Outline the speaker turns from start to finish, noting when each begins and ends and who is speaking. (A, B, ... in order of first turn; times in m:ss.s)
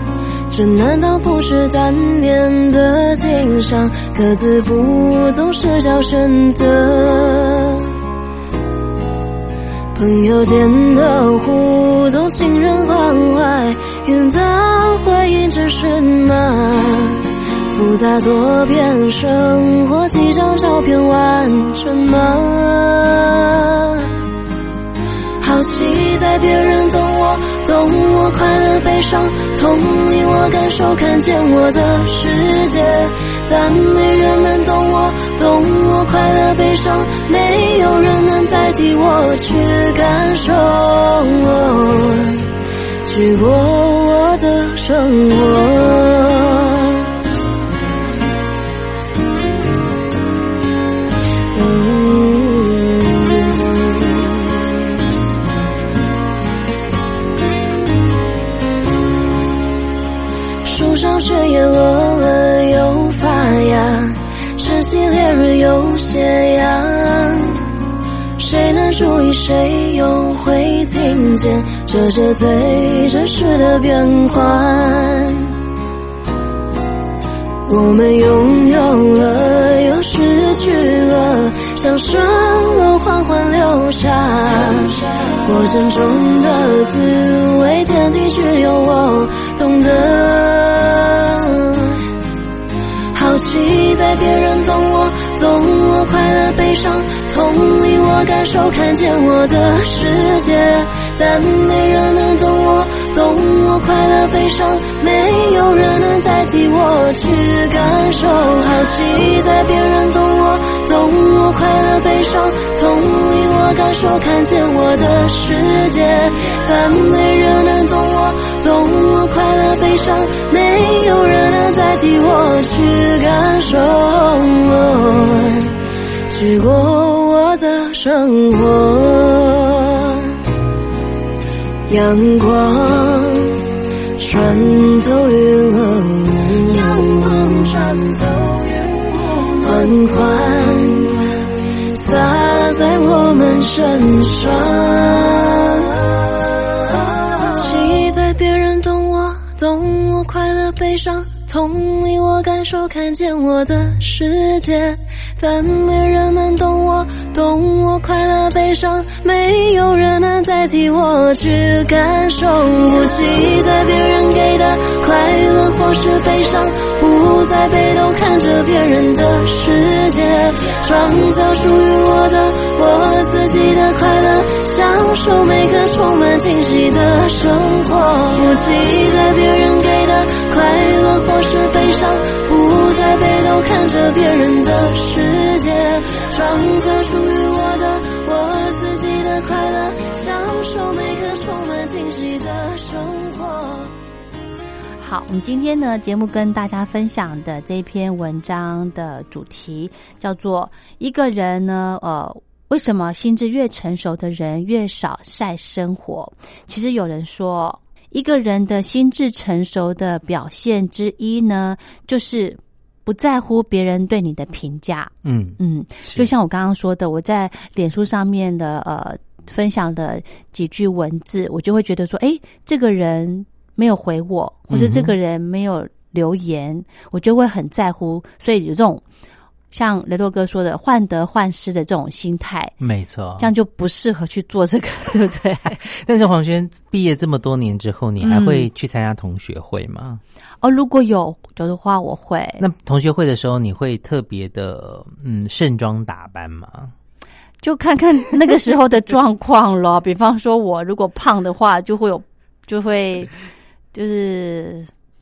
0:00.5-0:07.9 A
0:09.9-0:24.1 A
0:25.4-0:42.5 A
0:43.0-0:47.0 A
0:51.5-0:54.6 A
1:00.6-1:07.7 A
1:08.4-1:15.5 A
1:17.7-1:32.0 A
1:33.1-2:05.8 A
2:06.3-2:10.4 A
2:11.9-2:13.6 A
2:14.2-2:26.0 A
2:26.8-3:13.9 A
3:15.0-3:49.0 B
3:35.2-3:36.3 C
3:44.7-3:45.2 C
3:49.7-3:52.7 B
3:52.8-3:53.5 C
3:53.4-3:55.8 B
3:55.8-4:00.2 C
3:58.2-3:58.7 B
4:00.6-4:02.6 B
4:02.6-4:06.9 C
4:07.6-4:13.3 B
4:13.9-4:14.9 B